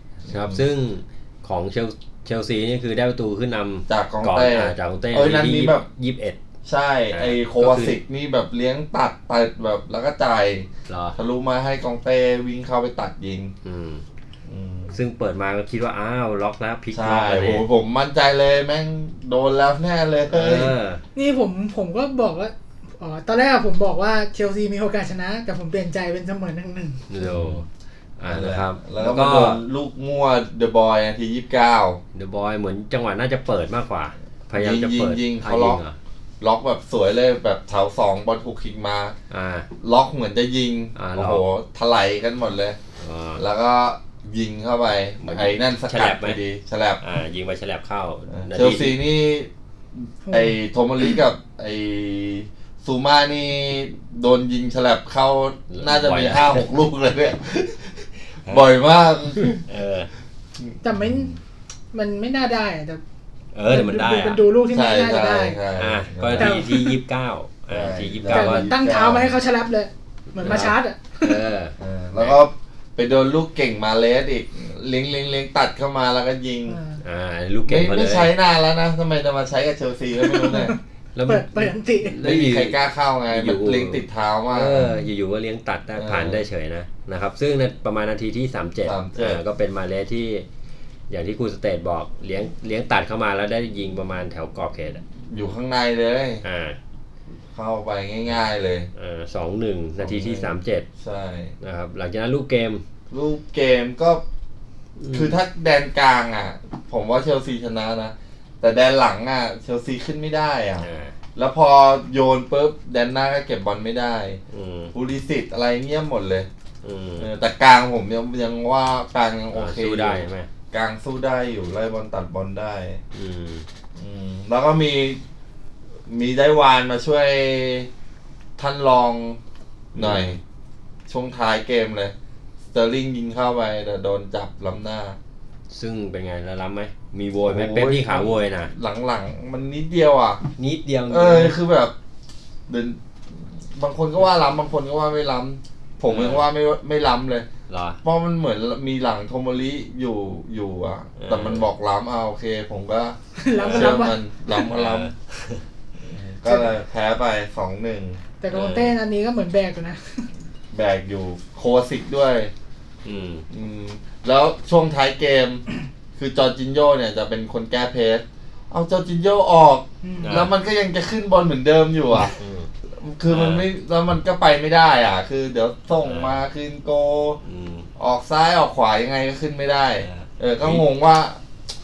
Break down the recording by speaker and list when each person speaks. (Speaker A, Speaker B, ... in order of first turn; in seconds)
Speaker A: 0.3-0.6, 3.9-5.8, 6.7-13.5, 14.5-14.9, 16.9-20.7, 27.2-27.6, 28.3-32.0, 34.5-35.8, 36.4-39.1, 39.8-42.8, 43.4-47.0, 48.3-59.6, 60.6-61.4, 64.7-66.6, 67.7-69.3, 70.4-70.7, 71.8-76.8, 77.7-80.7, 82.2-85.0, 86.0-86.4, 88.8-89.4, 95.3-96.4, 97.5-98.9, 100.0-101.5, 103.1-104.2, 105.1-114.4, 114.9-116.5, 117.2-123.0, 124.0-125.2, 126.1-127.9, 128.6-129.4, 129.9-130.4, 131.1-132.1, 132.7-135.2, 137.4-140.4, 141.1-141.9, 142.7-147.5, 148.0-155.1, 156.0-158.2, 160.7-162.5, 163.5-165.6, 166.2-172.4, 173.0-177.4, 178.0-181.4
Speaker B: 0.3-6.4, 7.1-8.0, 10.9-11.2, 13.6-14.0, 14.9-17.6, 20.3-21.0, 27.1-27.6, 28.2-29.6, 32.1-36.0, 39.3-39.7, 41.0-41.4, 43.0-43.4, 45.2-46.4, 47.0-49.0, 55.7-56.7, 59.7-60.1, 63.5-64.4, 65.8-68.7, 70.4-72.4, 77.0-78.3, 81.1-82.8, 83.3-90.5, 91.1-95.0, 96.4-96.8, 98.9-100.8, 101.6-102.8, 105.0-105.4, 110.8-111.1, 114.5-114.9, 116.8-117.3, 119.5-120.5, 123.1-123.6, 129.9-130.4, 135.7-138.7, 140.6-141.6, 146.1-146.5, 147.7-148.0, 151.2-151.7, 153.5-155.6, 158.5-158.9, 163.0-163.4, 170.2-170.5, 172.4-172.7, 173.3-173.7, 176.0-176.4, 177.4-177.9, 180.0-180.8
Speaker C: 21.1-27.1, 50.2-50.5, 60.8-61.3, 61.9-63.0, 63.7-65.6, 66.3-67.0, 68.3-71.3, 76.7-77.0, 80.2-82.2, 153.4-154.2, 158.4-160.3, 170.0-170.4